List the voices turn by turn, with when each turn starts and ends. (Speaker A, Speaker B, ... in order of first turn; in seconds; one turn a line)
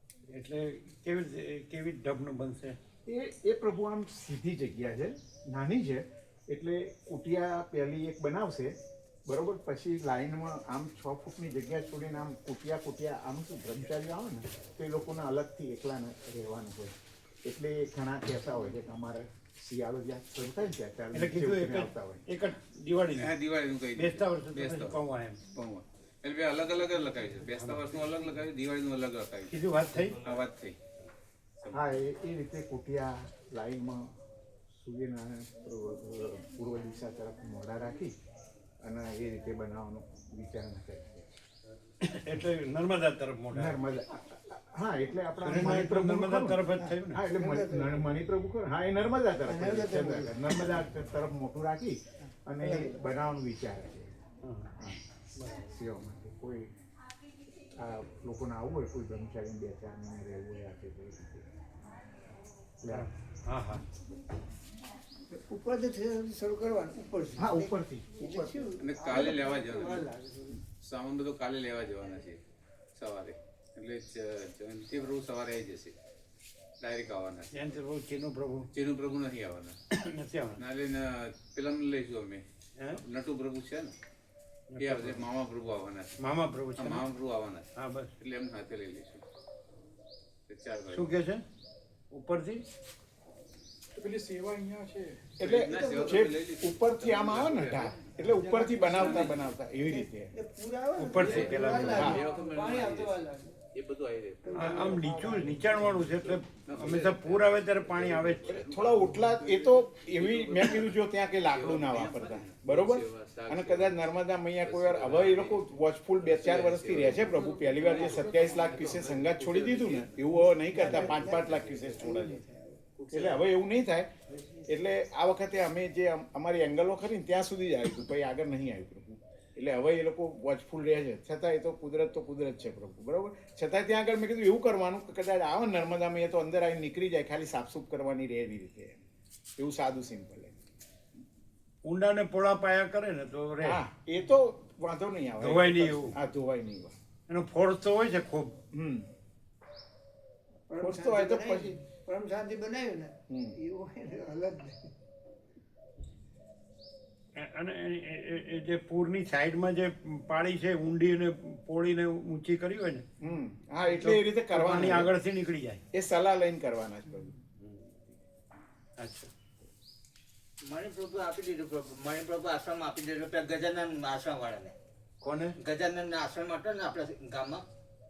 Speaker A: 0.3-2.8
Speaker B: 3.0-22.2
Speaker A: 21.1-23.3
Speaker C: 23.2-25.0
Speaker A: 24.0-25.4
Speaker C: 25.5-29.6
Speaker A: 29.5-30.2
Speaker C: 30.2-30.8
Speaker C: 31.6-32.0
Speaker B: 31.7-34.1
Speaker B: 34.7-38.1
Speaker B: 38.8-41.3
Speaker A: 42.0-43.8
Speaker B: 43.5-54.1
Speaker A: 45.4-47.2
Speaker D: 47.3-48.2
Speaker D: 49.4-50.8
Speaker D: 52.6-53.0
Speaker A: 54.4-54.7
Speaker B: 54.8-56.7
Speaker B: 57.8-61.4
Speaker B: 62.8-63.1
Speaker A: 62.9-63.8
Speaker D: 65.3-70.6
Speaker B: 67.4-69.2
Speaker C: 68.8-70.0
Speaker C: 70.8-72.4
Speaker C: 73.0-75.9
Speaker C: 76.8-77.5
Speaker A: 77.5-78.7
Speaker C: 78.7-79.8
Speaker A: 79.9-80.6
Speaker C: 80.6-82.4
Speaker C: 83.0-84.0
Speaker A: 84.7-85.2
Speaker C: 84.8-86.2
Speaker A: 86.2-87.0
Speaker C: 86.8-87.7
Speaker A: 87.8-88.1
Speaker C: 88.2-89.2
Speaker C: 90.5-91.1
Speaker A: 90.9-91.5
Speaker A: 92.1-92.6
Speaker E: 94.0-95.2
Speaker B: 95.4-100.3
Speaker C: 95.4-98.1
Speaker D: 95.6-96.3
Speaker D: 98.2-103.5
Speaker C: 98.9-99.4
Speaker A: 101.0-102.2
Speaker C: 101.2-103.2
Speaker B: 101.9-102.2
Speaker C: 103.8-105.3
Speaker D: 104.4-105.9
Speaker A: 104.5-108.7
Speaker C: 105.9-114.0
Speaker B: 108.7-122.4
Speaker C: 114.6-115.7
Speaker C: 116.2-122.3
Speaker E: 117.1-118.8
Speaker D: 120.6-122.8
Speaker C: 123.0-123.5
Speaker B: 123.1-124.1
Speaker B: 124.7-139.0
Speaker B: 139.6-140.6
Speaker A: 141.8-143.8
Speaker B: 143.6-146.9
Speaker A: 145.4-146.2
Speaker A: 147.3-148.6
Speaker B: 148.7-149.1
Speaker D: 150.7-154.8
Speaker B: 150.8-151.8
Speaker B: 153.3-153.6
Speaker A: 157.4-163.1
Speaker B: 163.2-165.1
Speaker A: 164.0-165.8
Speaker B: 165.9-167.4
Speaker A: 167.6-167.9
Speaker A: 169.0-169.3
Speaker F: 170.7-174.8
Speaker A: 175.2-175.6
Speaker F: 175.6-177.6